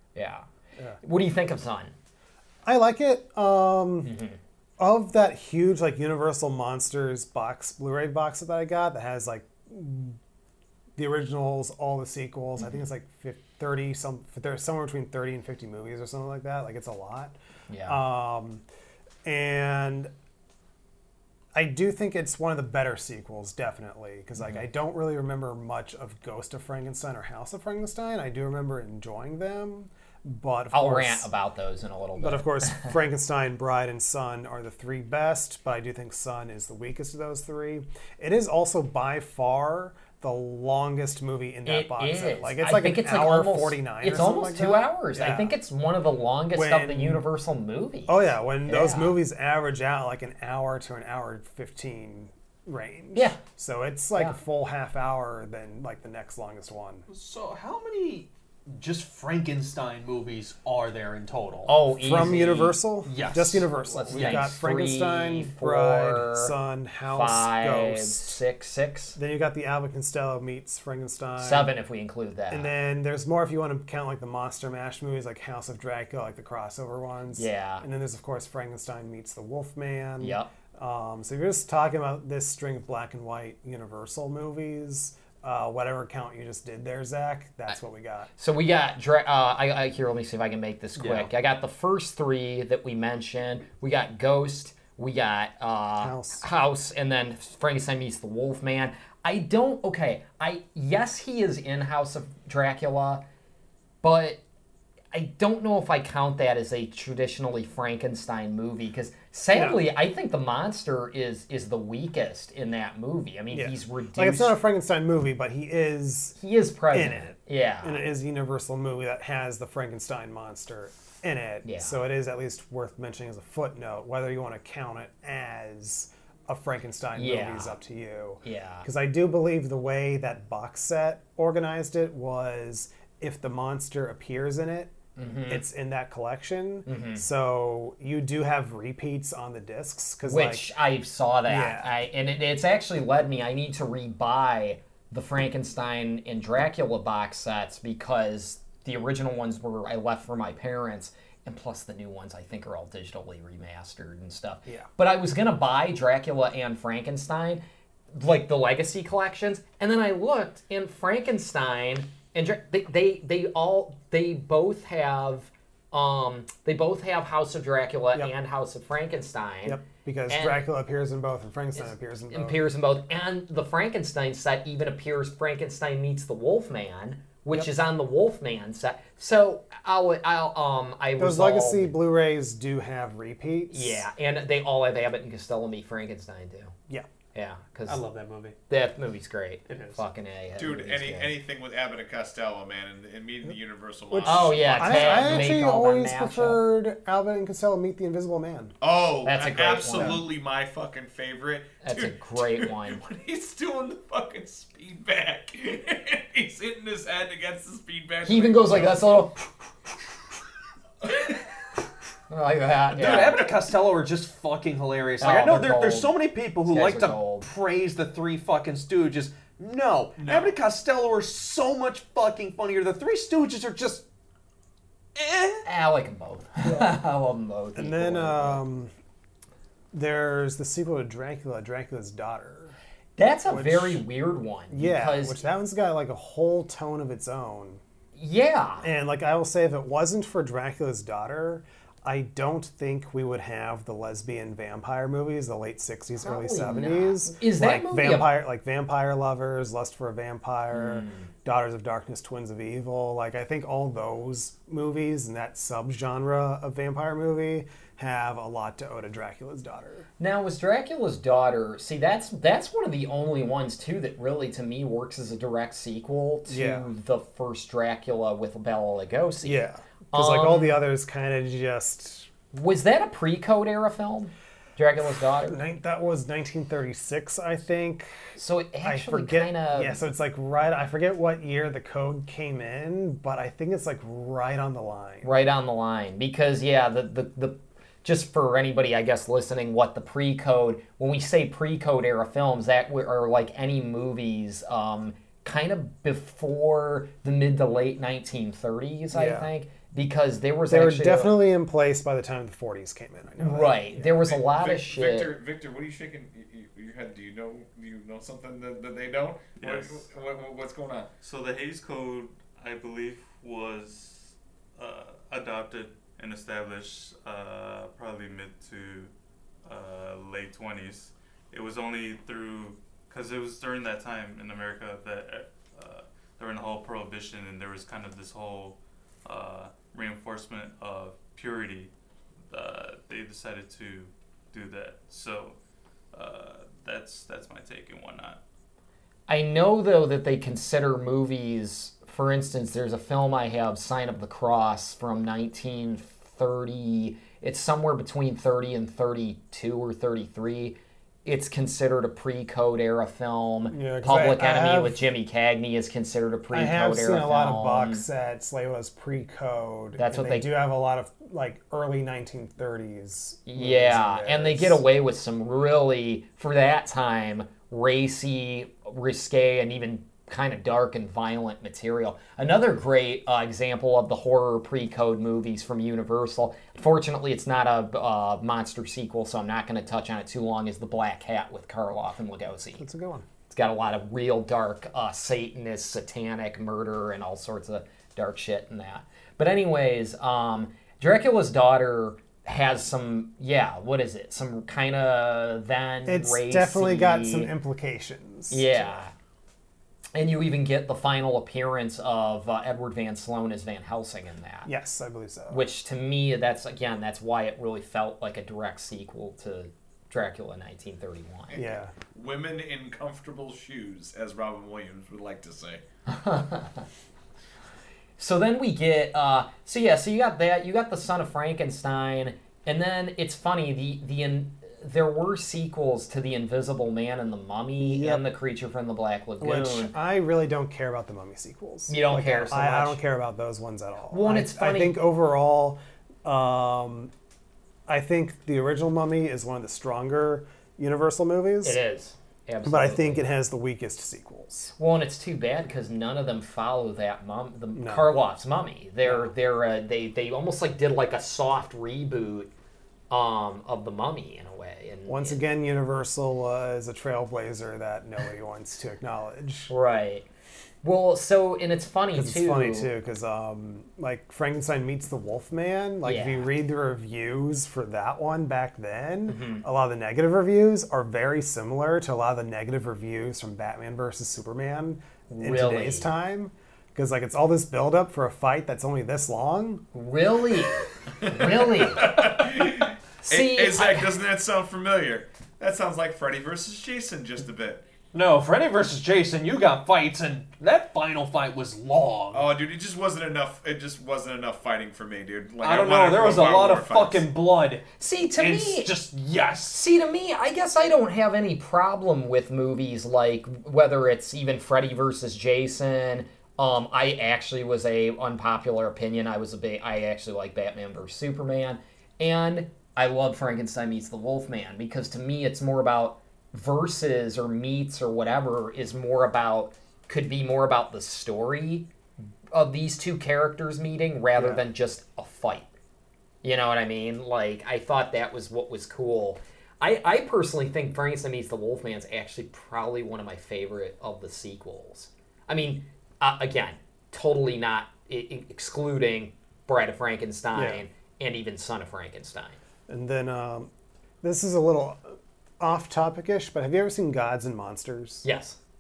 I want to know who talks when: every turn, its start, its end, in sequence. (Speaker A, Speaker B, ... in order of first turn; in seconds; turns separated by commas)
Speaker A: 0.1-0.5, Speaker A: 1.0-1.9, Speaker B: 2.6-4.1, Speaker A: 4.0-4.4, Speaker B: 4.8-10.2, Speaker B: 11.0-17.4, Speaker A: 17.7-18.0, Speaker B: 17.9-18.6, Speaker B: 19.2-20.1, Speaker B: 21.6-31.3, Speaker A: 24.4-24.6, Speaker A: 30.7-32.9, Speaker B: 32.2-45.5, Speaker A: 41.7-49.2, Speaker B: 46.5-47.2, Speaker B: 48.1-57.1, Speaker A: 53.1-53.4, Speaker C: 57.1-61.7, Speaker A: 61.7-62.8, Speaker B: 62.0-68.4, Speaker C: 63.1-64.5, Speaker A: 63.9-66.5, Speaker A: 67.1-69.2, Speaker B: 69.2-71.7, Speaker A: 71.4-72.7, Speaker B: 72.5-88.3, Speaker A: 77.3-77.8, Speaker A: 80.2-80.5, Speaker A: 88.4-103.2, Speaker B: 91.0-91.3, Speaker B: 96.0-96.5, Speaker A: 104.0-104.4, Speaker A: 105.1-114.5, Speaker B: 109.5-109.8, Speaker B: 113.5-116.4, Speaker A: 116.4-118.0, Speaker B: 116.9-134.9, Speaker A: 121.6-122.0, Speaker A: 127.2-127.8, Speaker A: 128.4-128.9, Speaker A: 135.2-135.7, Speaker B: 135.5-140.7, Speaker A: 136.9-137.2, Speaker A: 140.2-170.6, Speaker B: 141.5-141.9, Speaker B: 169.7-172.6, Speaker A: 171.8-181.9, Speaker B: 181.2-184.1, Speaker A: 183.7-186.8, Speaker A: 187.3-188.0, Speaker C: 187.9-188.6, Speaker A: 188.7-191.3, Speaker C: 189.7-190.0, Speaker D: 190.6-195.5, Speaker B: 194.1-198.7, Speaker A: 194.3-196.6, Speaker D: 198.8-209.2, Speaker A: 199.2-200.2, Speaker B: 199.9-200.2, Speaker A: 201.8-203.0, Speaker A: 208.2-209.5, Speaker D: 211.1-211.4, Speaker A: 212.3-213.5, Speaker C: 212.9-224.1, Speaker A: 215.2-216.1, Speaker A: 216.6-217.5, Speaker D: 220.2-220.5, Speaker C: 225.2-225.7, Speaker A: 225.6-228.6, Speaker B: 226.6-227.0, Speaker B: 227.8-228.9, Speaker B: 229.9-232.8, Speaker A: 233.2-235.4, Speaker B: 233.5-234.1, Speaker B: 234.7-237.8, Speaker A: 238.2-238.9, Speaker B: 238.8-260.1, Speaker A: 246.2-248.3, Speaker A: 250.7-251.3, Speaker A: 260.2-270.8, Speaker B: 266.5-266.9, Speaker B: 269.4-272.3, Speaker A: 272.5-275.6, Speaker B: 275.4-285.4, Speaker A: 278.4-280.0, Speaker A: 285.2-301.4, Speaker B: 299.1-299.5, Speaker B: 300.7-304.1, Speaker A: 303.4-305.3, Speaker D: 304.1-311.1, Speaker E: 309.6-310.1, Speaker E: 311.2-319.1, Speaker E: 319.6-331.9, Speaker E: 332.5-335.6, Speaker E: 336.1-338.4, Speaker A: 339.3-358.0, Speaker B: 353.7-355.0, Speaker B: 356.5-364.8, Speaker A: 360.0-360.5, Speaker A: 363.5-382.9, Speaker B: 382.8-383.3, Speaker A: 383.5-397.5, Speaker B: 396.1-399.0, Speaker A: 398.5-399.1, Speaker A: 400.1-404.7, Speaker B: 404.6-405.7, Speaker A: 405.5-411.6, Speaker D: 411.5-415.8, Speaker B: 411.6-411.9, Speaker A: 416.1-416.9, Speaker A: 418.2-429.9, Speaker B: 427.8-428.2, Speaker B: 429.4-437.1, Speaker A: 431.9-433.0, Speaker A: 434.1-435.0, Speaker B: 437.9-441.8, Speaker A: 441.6-443.3, Speaker B: 442.6-444.7, Speaker A: 444.8-452.5, Speaker B: 447.7-448.1, Speaker B: 449.0-449.3, Speaker A: 453.1-455.4, Speaker B: 455.1-459.7, Speaker A: 459.7-460.3, Speaker A: 460.8-462.9, Speaker B: 462.1-479.9, Speaker A: 466.0-466.5, Speaker A: 469.3-469.6, Speaker A: 475.3-476.1, Speaker A: 479.9-482.3, Speaker D: 481.2-487.9, Speaker A: 483.2-484.1, Speaker C: 488.1-492.5, Speaker D: 492.3-497.3, Speaker C: 495.6-497.9, Speaker A: 498.0-498.9, Speaker C: 498.4-499.8, Speaker A: 499.7-521.9, Speaker A: 522.5-525.7, Speaker B: 524.4-524.7, Speaker A: 526.4-542.6, Speaker B: 540.5-540.9, Speaker B: 542.9-543.7, Speaker B: 544.2-548.3, Speaker A: 548.2-548.6